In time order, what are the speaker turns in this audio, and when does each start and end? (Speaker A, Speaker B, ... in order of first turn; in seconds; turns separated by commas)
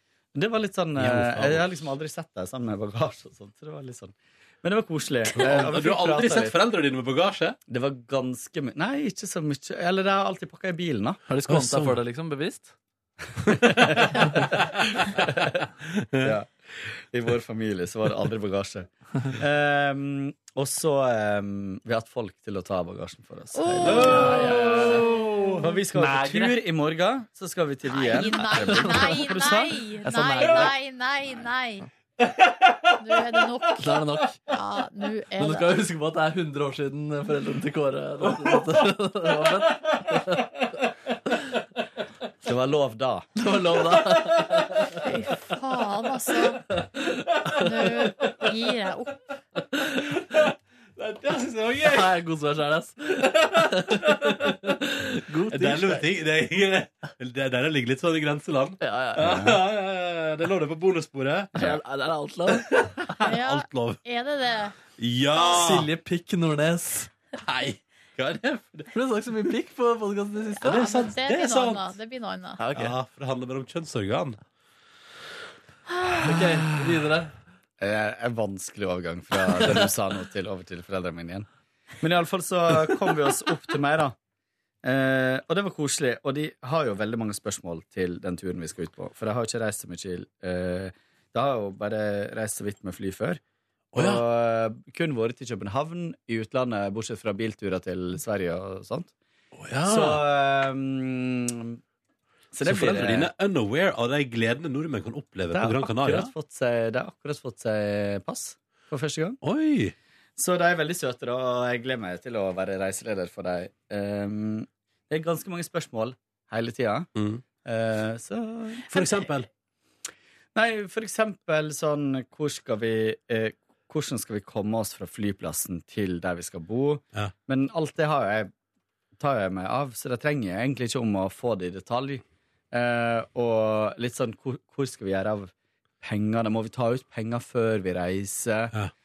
Speaker A: 0.3-6.6, Speaker B: 0.9-1.7, Speaker B: 5.3-7.6, Speaker A: 7.7-11.2, Speaker C: 11.3-12.7, Speaker B: 11.5-12.0, Speaker B: 13.4-14.6, Speaker A: 13.5-14.4, Speaker B: 15.1-16.3, Speaker A: 16.2-16.5, Speaker A: 17.1-24.9, Speaker D: 23.5-25.4, Speaker B: 23.8-25.6, Speaker C: 24.3-25.0, Speaker A: 25.6-29.8, Speaker C: 25.9-26.6, Speaker D: 27.9-31.9, Speaker C: 28.7-29.3, Speaker C: 30.0-30.7, Speaker B: 32.3-32.9, Speaker D: 33.0-34.0, Speaker C: 33.8-34.4, Speaker D: 34.5-35.7, Speaker C: 35.4-40.5, Speaker A: 42.4-43.3, Speaker C: 43.4-45.0, Speaker B: 44.3-44.6, Speaker D: 45.0-46.6, Speaker C: 46.8-47.5, Speaker D: 47.5-49.2, Speaker C: 49.7-50.2, Speaker B: 51.0-52.1, Speaker C: 51.8-56.0, Speaker B: 53.2-54.6, Speaker B: 55.5-61.8, Speaker C: 58.8-59.3, Speaker A: 59.2-59.6, Speaker C: 61.5-63.0, Speaker B: 62.5-64.0, Speaker D: 63.2-64.7, Speaker B: 65.0-65.9, Speaker C: 65.5-67.1, Speaker B: 67.4-68.8, Speaker C: 68.9-71.0, Speaker D: 70.6-72.6, Speaker B: 70.6-71.9, Speaker C: 72.6-72.9, Speaker B: 72.7-74.4, Speaker C: 76.2-77.3, Speaker B: 76.3-76.6, Speaker A: 77.8-81.5, Speaker A: 82.0-84.1, Speaker A: 84.8-93.4, Speaker B: 93.9-94.2, Speaker A: 93.9-99.1, Speaker B: 99.5-100.2, Speaker A: 99.8-101.8, Speaker A: 102.5-103.3, Speaker B: 102.6-106.3, Speaker A: 105.5-109.4, Speaker B: 109.4-109.9, Speaker A: 110.4-117.1, Speaker B: 117.2-117.4, Speaker A: 117.6-119.0, Speaker B: 118.8-119.5, Speaker A: 120.5-128.5, Speaker A: 129.2-138.7